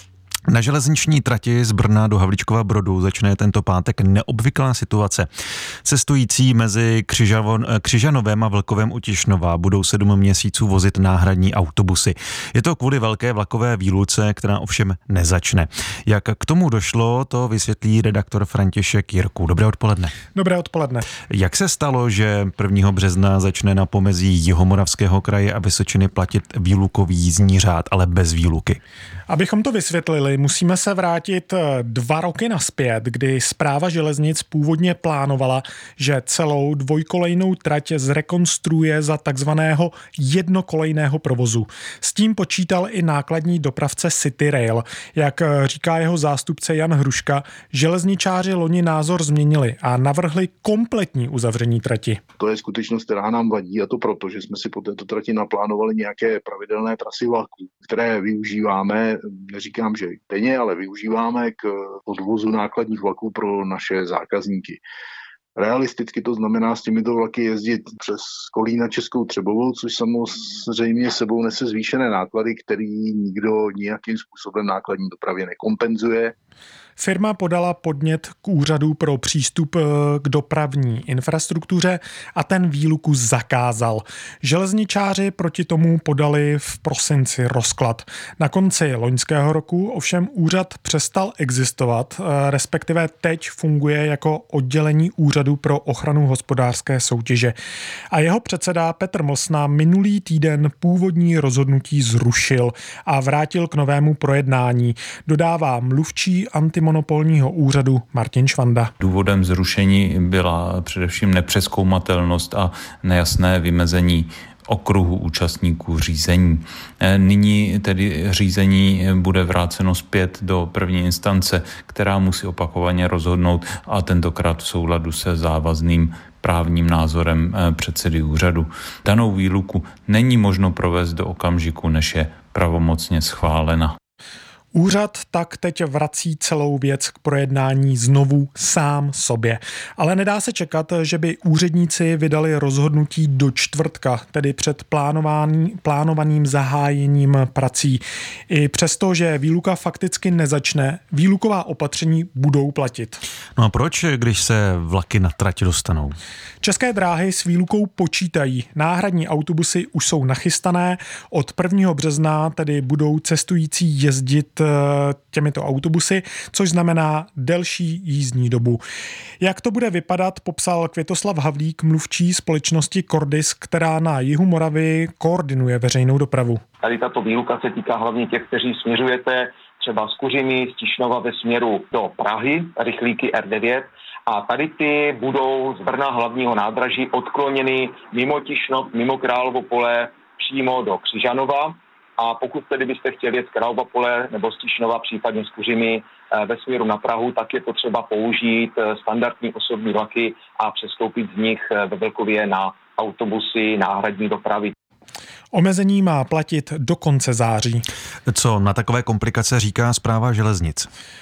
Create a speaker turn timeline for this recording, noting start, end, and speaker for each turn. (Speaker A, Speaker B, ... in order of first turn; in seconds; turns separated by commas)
Speaker A: 0.5-5.3, Speaker A: 5.8-20.1, Speaker B: 20.3-21.1, Speaker A: 21.2-28.8, Speaker B: 29.3-52.2, Speaker C: 52.4-64.8, Speaker C: 65.5-76.3, Speaker B: 77.0-97.5, Speaker B: 98.1-108.9, Speaker D: 109.0-133.9, Speaker B: 134.7-153.2, Speaker A: 153.6-156.2, Speaker B: 156.6-168.8, Speaker B: 169.4-176.6, Speaker E: 176.8-204.7, Speaker B: 205.5-207.8, Speaker A: 208.3-210.9